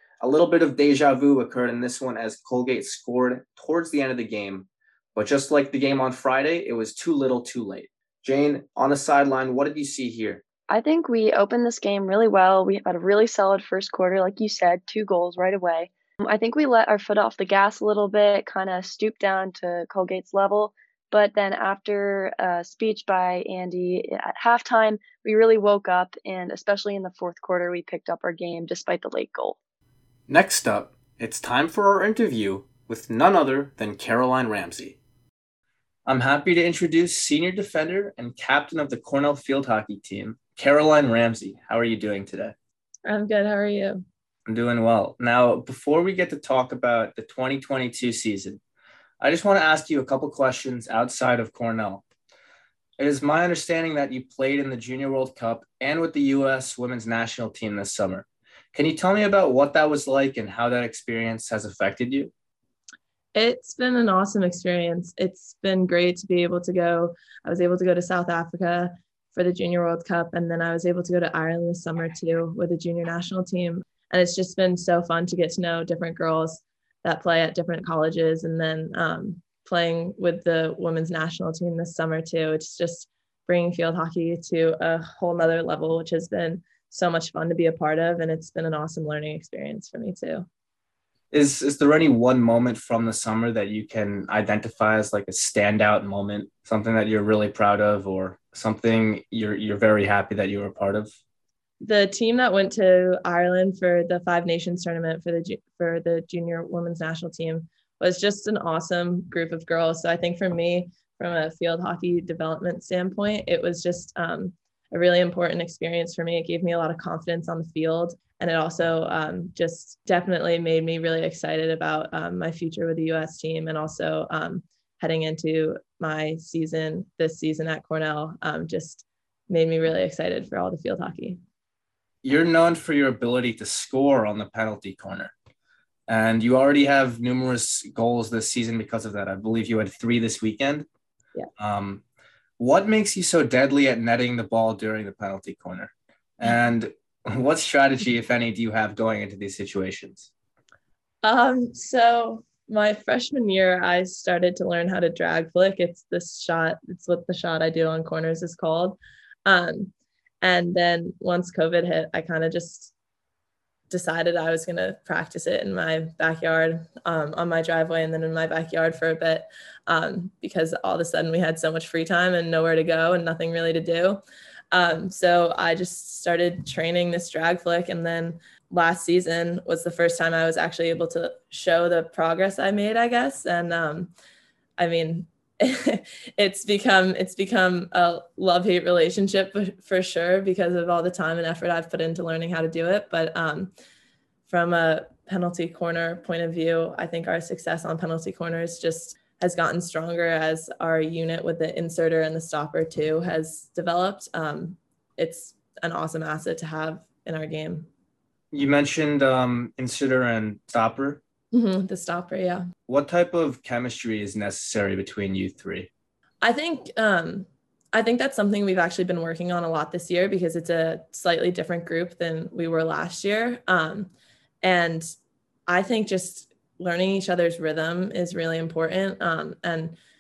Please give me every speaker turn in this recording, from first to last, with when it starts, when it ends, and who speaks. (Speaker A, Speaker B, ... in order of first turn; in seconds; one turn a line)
Speaker A: 0.2-10.4
Speaker B: 10.7-29.6
Speaker A: 30.3-35.0
Speaker A: 36.1-42.5
Speaker C: 43.1-44.0
Speaker A: 44.5-48.6
Speaker A: 49.2-52.0
Speaker A: 53.0-62.3
Speaker C: 63.4-90.5
Speaker A: 91.3-101.1
Speaker C: 101.8-131.4
Speaker A: 132.2-135.3
Speaker A: 136.1-140.9
Speaker A: 141.6-142.0
Speaker A: 142.6-150.3
Speaker C: 151.2-162.9
Speaker C: 163.9-184.1
Speaker C: 184.8-193.7
Speaker C: 194.5-207.9
Speaker A: 208.5-211.2
Speaker C: 211.5-212.7
Speaker A: 212.9-215.9
Speaker C: 216.4-224.1
Speaker C: 224.6-225.1
Speaker C: 225.7-230.0